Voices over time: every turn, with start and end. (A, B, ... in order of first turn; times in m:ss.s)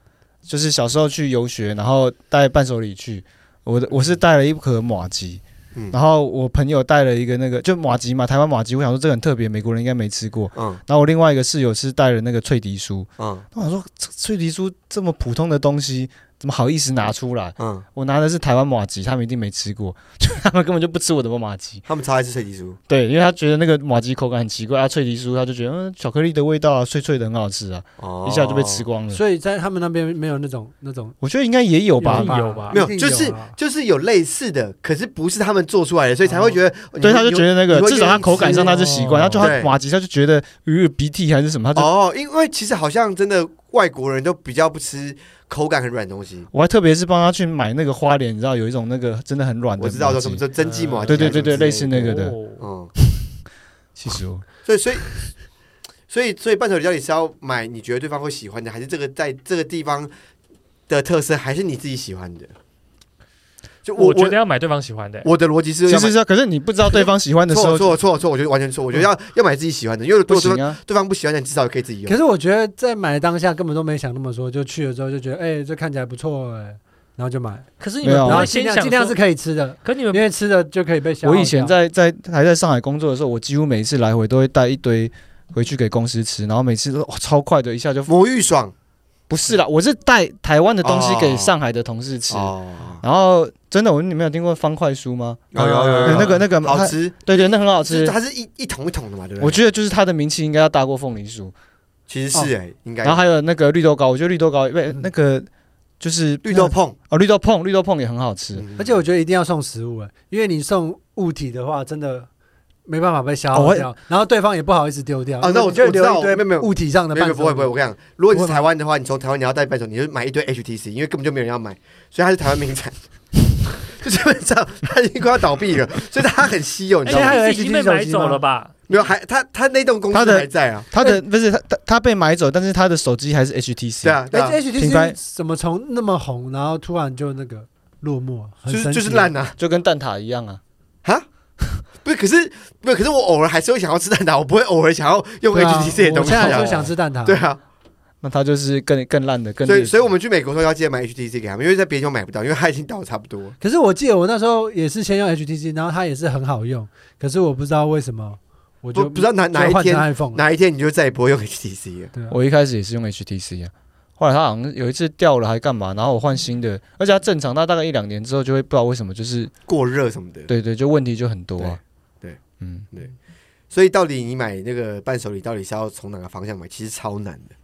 0:00.4-0:21.8 A
0:10.5-0:10.8 B
0:13.2-0:13.4 B
0:17.6-0:17.8 B
0:21.8-0:22.8 B
0:22.9-0:29.2 A
0:28.0-0:28.9 B
0:29.1-0:31.2 C
0:31.2-0:32.3 A
0:32.0-0:33.6 C
0:32.1-0:32.8 D
0:32.7-0:38.7 B
0:36.2-0:36.6 C
0:37.0-0:41.9 A
0:38.3-0:39.5 C
0:39.4-0:39.7 B
0:41.8-0:46.5 B
0:46.5-0:50.4 A
0:49.8-0:52.9 B
0:50.6-0:52.6 D
0:51.0-0:52.3 A
0:54.0-0:54.4 A
0:54.6-0:55.2 B
0:56.1-1:00.1 B
1:00.9-1:02.5 B
1:03.8-1:04.4 B
1:03.9-1:05.3 D
1:05.2-1:06.1 B
1:05.9-1:07.9 A
1:07.0-1:12.2 B
1:10.3-1:10.8 A
1:12.0-1:21.7 C
1:17.8-1:19.2 D
1:18.0-1:18.5 A
1:19.8-1:20.2 D
1:21.2-1:28.1 A
1:28.1-1:28.7 B
1:29.3-1:38.1 A
1:30.8-1:31.5 B
1:32.3-1:33.0 B
1:35.5-1:39.6 B
1:35.8-1:36.4 C
1:39.4-1:41.5 A
1:42.1-1:43.2 B
1:43.0-1:45.5 A
1:46.0-1:48.6 A
1:46.4-1:46.9 B
1:48.5-1:49.0 B
1:48.8-1:52.3 C
1:52.8-1:57.7 C
1:53.5-1:53.9 A
1:55.4-2:02.9 B
1:58.3-1:58.6 C
2:03.8-2:07.4 B
2:07.0-2:08.4 C
2:07.0-2:08.7 D
2:08.9-2:10.9 B
2:10.1-2:14.2 A
2:14.0-2:14.6 B
2:14.3-2:19.3 C
2:14.7-2:15.1 A
2:18.7-2:19.5 B
2:19.6-2:20.6 A
2:22.0-2:27.6 B
2:25.5-2:27.4 C
2:26.3-2:26.6 A
2:28.2-2:30.0 A
2:29.6-2:33.6 B
2:33.6-2:40.4 C
2:38.9-2:42.1 B
2:42.3-2:49.5 A
2:49.7-2:50.5 B
2:50.5-2:51.8 A
2:51.6-2:52.4 B
2:52.6-2:52.9 A
2:53.7-2:57.5 B